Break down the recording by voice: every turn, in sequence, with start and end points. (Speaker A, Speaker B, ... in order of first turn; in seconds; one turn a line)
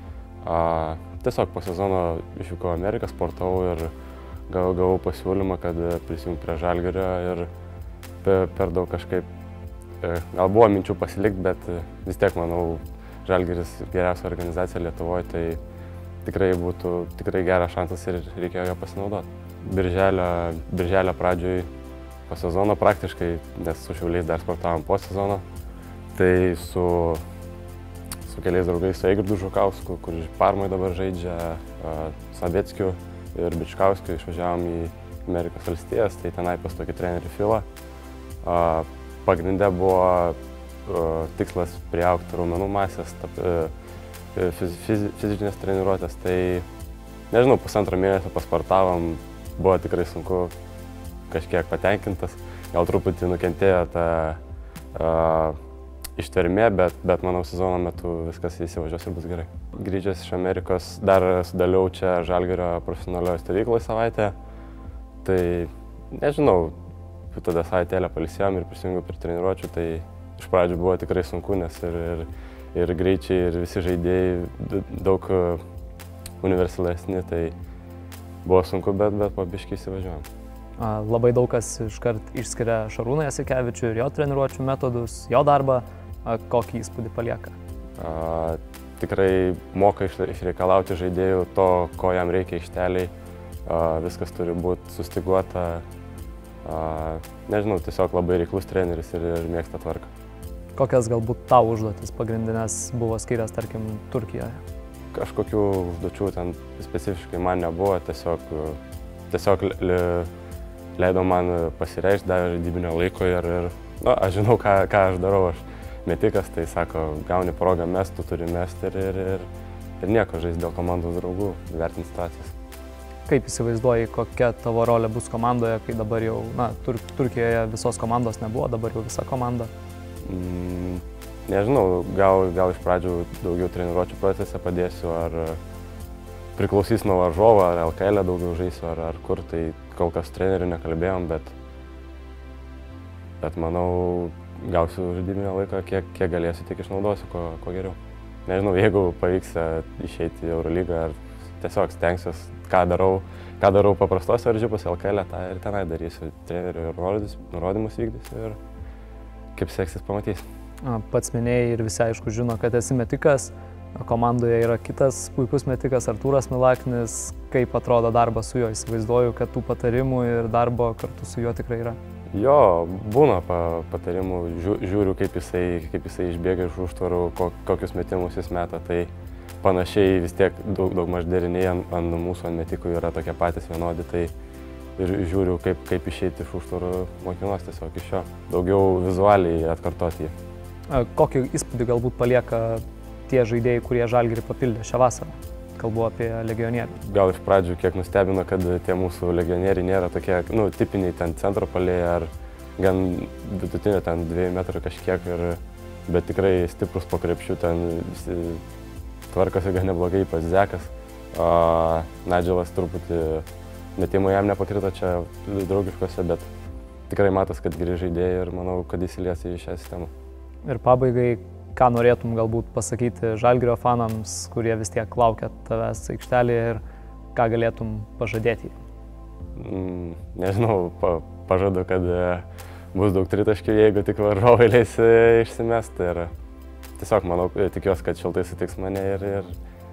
Speaker A: 0.4-3.9
Speaker A: 4.5-7.5
Speaker A: 8.2-9.3
Speaker A: 10.0-15.6
Speaker A: 16.2-21.7
Speaker A: 22.3-25.4
Speaker A: 26.1-27.2
Speaker A: 28.2-37.6
Speaker A: 38.4-43.7
Speaker A: 44.3-46.6
Speaker A: 47.3-50.5
Speaker A: 51.3-54.4
Speaker A: 54.9-55.6
Speaker A: 56.1-64.3
Speaker A: 65.2-66.8
Speaker A: 67.3-75.6
Speaker A: 76.4-77.5
Speaker A: 78.4-80.2
Speaker B: 80.8-87.5
Speaker A: 88.0-93.1
Speaker A: 93.6-95.8
Speaker A: 96.6-100.1
Speaker B: 100.8-104.6
Speaker A: 105.1-110.3
Speaker A: 111.0-119.5
Speaker A: 120.0-122.5
Speaker B: 123.3-129.7
Speaker A: 130.2-135.6
Speaker A: 136.6-141.6
Speaker A: 143.4-158.6
Speaker A: 159.5-160.4
Speaker B: 160.8-172.0
Speaker A: 172.3-184.3
Speaker A: 185.0-190.3
Speaker B: 190.9-197.0
Speaker A: 197.0-208.6
Speaker A: 209.3-216.5
Speaker A: 217.1-220.1
Speaker B: 220.7-226.8
Speaker B: 227.3-228.7
Speaker A: 229.6-236.3
Speaker A: 237.0-239.5